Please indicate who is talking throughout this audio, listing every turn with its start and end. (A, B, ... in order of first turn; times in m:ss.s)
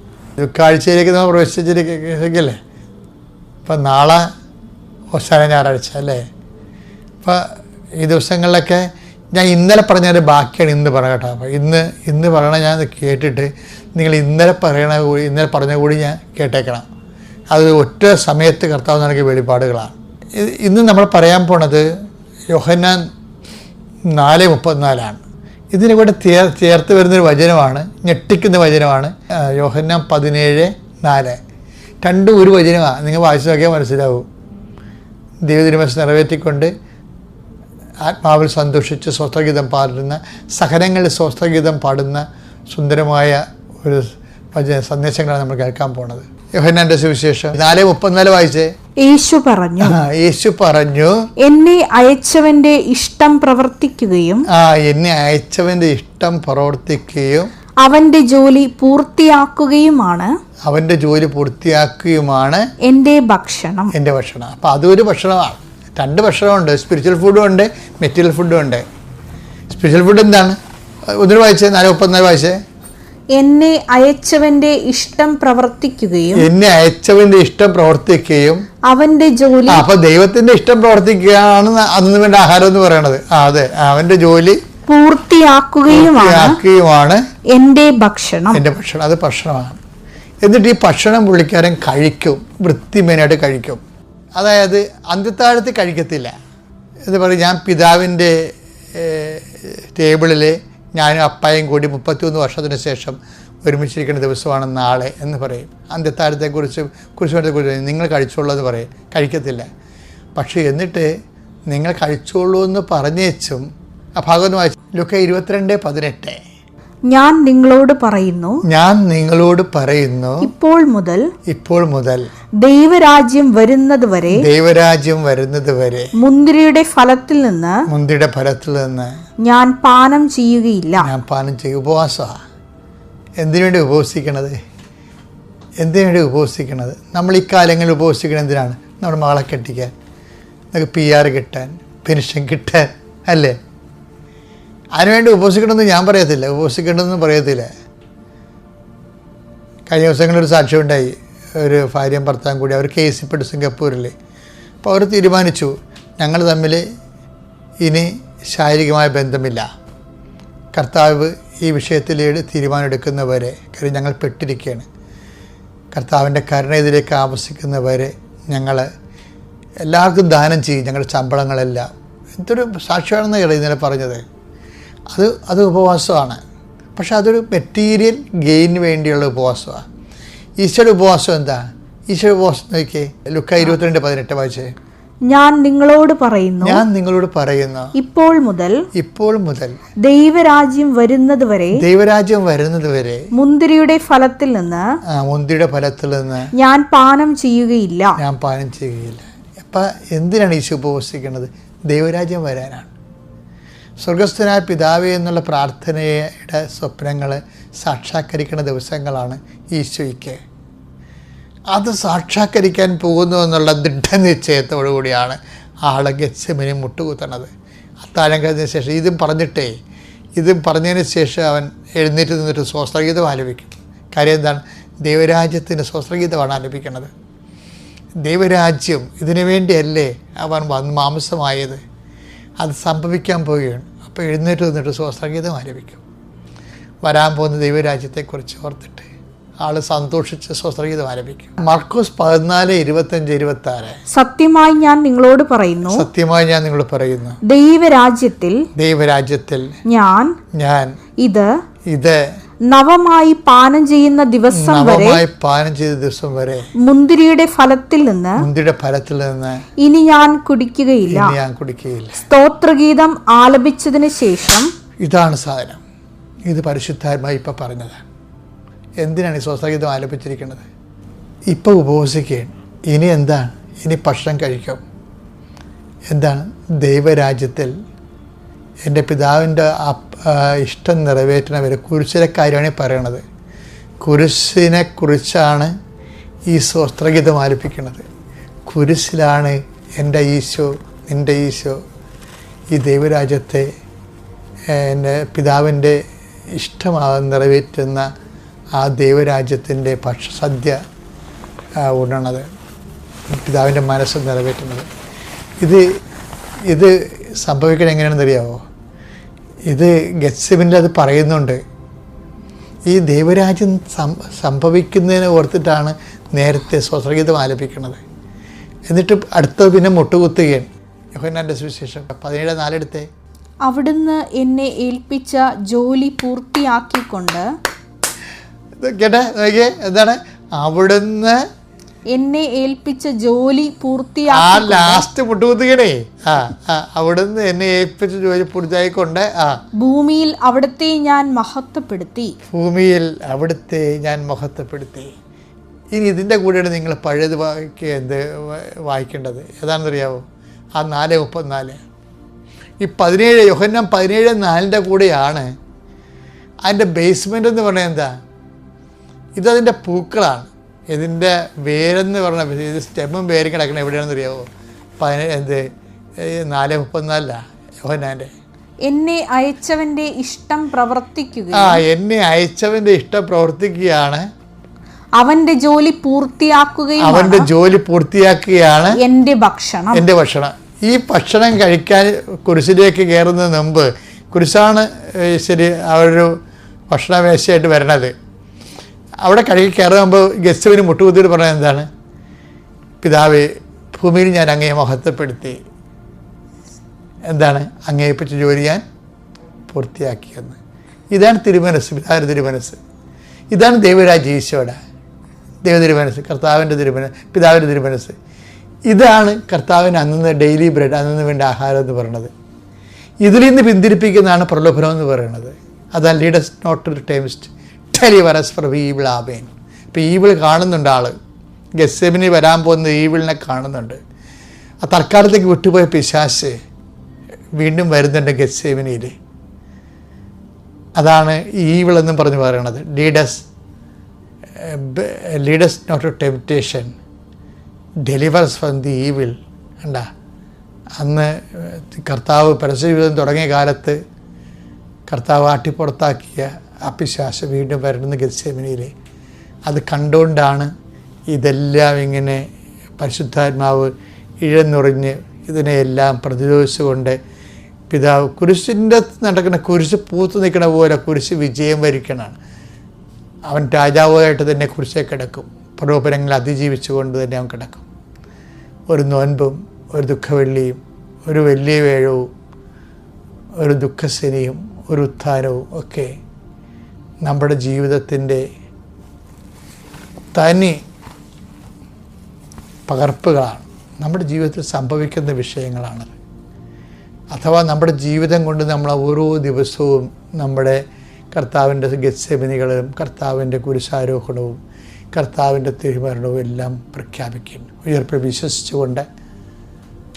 0:00.4-0:02.6 A
0:03.7-0:04.3 A
0:05.1-0:06.2 A
0:07.2-0:07.5 A
0:08.0-0:16.8 A
0:17.5-0:21.9 A
0:22.5-0:23.1 A
0:24.1-0:31.4 A
0:32.0-0:34.3 A
0:35.4-0:36.7 A
0:38.0-0:48.7 A
0:49.0-0:50.0 B
0:49.8-0:51.2 A
0:51.4-0:54.4 B
0:54.5-0:57.5 A
0:57.8-1:00.3 B
1:00.7-1:02.6 A
1:02.9-1:03.9 B
1:04.0-1:08.8 A
1:09.7-1:10.6 A
1:11.2-1:12.6 A
1:13.4-1:16.5 B
1:16.3-1:18.6 A
1:18.9-1:19.9 B
1:19.7-1:24.6 A
1:24.9-1:26.6 B
1:25.9-1:27.2 A
1:27.5-1:28.6 B
1:28.5-1:29.8 A
1:30.4-1:33.8 A
1:34.4-1:36.3 A
1:37.1-1:38.4 A
1:38.9-1:49.7 A
1:50.4-1:51.1 A
1:51.7-1:53.7 A
1:54.2-1:56.4 A
1:57.1-1:58.6 B
1:58.7-2:00.5 A
2:00.4-2:01.2 B
2:01.5-2:02.3 A
2:02.6-2:04.5 B
2:04.3-2:06.1 A
2:06.2-2:07.8 B
2:07.9-2:09.1 A
2:09.4-2:11.1 B
2:11.0-2:12.3 A
2:13.4-2:14.6 A
2:15.8-2:19.9 A
2:20.7-2:23.6 A
2:25.0-2:27.7 A
2:29.9-2:34.1 A
2:34.8-2:36.8 A
2:37.8-2:39.7 A
2:40.8-2:44.9 A
2:45.9-2:48.9 A
2:49.8-2:54.2 A
2:55.1-2:56.4 A
2:57.0-2:59.8 A
3:00.6-3:04.7 A
3:05.3-3:06.8 B
3:06.6-3:07.9 A
3:08.0-3:08.8 B
3:09.0-3:09.8 A
3:10.1-3:11.8 B
3:11.7-3:13.2 A
3:13.4-3:14.8 B
3:15.1-3:16.5 A
3:16.6-3:18.2 B
3:18.2-3:22.9 A
3:24.0-3:30.4 A
3:31.7-3:37.5 A
3:38.0-3:39.7 A
3:40.4-3:47.1 A
3:48.2-3:51.8 A
3:52.6-3:56.0 A
3:57.0-3:59.1 A
3:59.6-4:04.0 A
4:04.1-4:06.0 B
4:05.9-4:07.4 A
4:07.4-4:08.6 B
4:08.8-4:09.7 A
4:09.9-4:10.3 B
4:10.6-4:10.9 A
4:11.9-4:12.2 A
4:12.7-4:15.2 B
4:14.5-4:16.7 A
4:16.8-4:18.4 B
4:18.4-4:19.6 A
4:19.8-4:21.4 B
4:21.1-4:22.2 A
4:22.2-4:24.7 B
4:25.0-4:25.8 A
4:26.5-4:28.0 A
4:29.0-4:30.7 A
4:31.5-4:34.8 A
4:36.1-4:37.7 A
4:38.9-4:43.2 A
4:44.0-4:45.7 A
4:46.5-4:48.0 A
4:48.7-4:51.8 A
4:52.7-4:53.7 A
4:54.7-4:56.0 A
4:56.6-4:58.1 A
4:58.8-5:00.8 A
5:01.8-5:02.5 A
5:03.4-5:04.9 A
5:06.7-5:08.6 A
5:09.7-5:11.6 A
5:12.9-5:18.0 A
5:18.9-5:23.1 A
5:23.7-5:27.4 B
5:28.8-5:31.4 A
5:32.1-5:35.1 B
5:34.3-5:39.6 A
5:39.8-5:42.3 B
5:42.5-5:45.1 A
5:45.9-5:50.2 A
5:50.8-5:51.8 A
5:52.8-5:55.5 A
5:56.7-5:58.1 A
5:59.4-6:04.5 A
6:05.0-6:05.6 A
6:06.2-6:08.3 A
6:08.9-6:11.8 B
6:11.6-6:14.2 A
6:15.2-6:17.5 B
6:17.0-6:19.0 A
6:19.0-6:20.0 B
6:20.0-6:26.3 A
6:26.9-6:28.1 A
6:29.2-6:31.9 A
6:33.0-6:35.6 A
6:37.3-6:38.8 A
6:39.7-6:40.6 A
6:41.1-6:42.8 A
6:43.5-6:44.8 A
6:45.6-6:48.2 A
6:48.9-6:52.3 A
6:53.2-7:01.1 A
7:01.8-7:04.0 A
7:04.8-7:06.6 A
7:07.6-7:09.2 A
7:11.0-7:13.5 A
7:14.6-7:16.9 A
7:18.1-7:20.1 A
7:21.0-7:24.0 A
7:25.1-7:28.9 A
7:29.7-7:30.7 A
7:31.3-7:32.4 A
7:33.0-7:37.2 A
7:37.9-7:42.4 A
7:43.5-7:47.8 A
7:48.9-7:52.3 A
7:53.6-7:56.1 A
7:57.2-7:58.4 A
8:00.4-8:00.8 A
8:02.9-8:06.1 A
8:07.3-8:14.6 A
8:15.1-8:19.0 A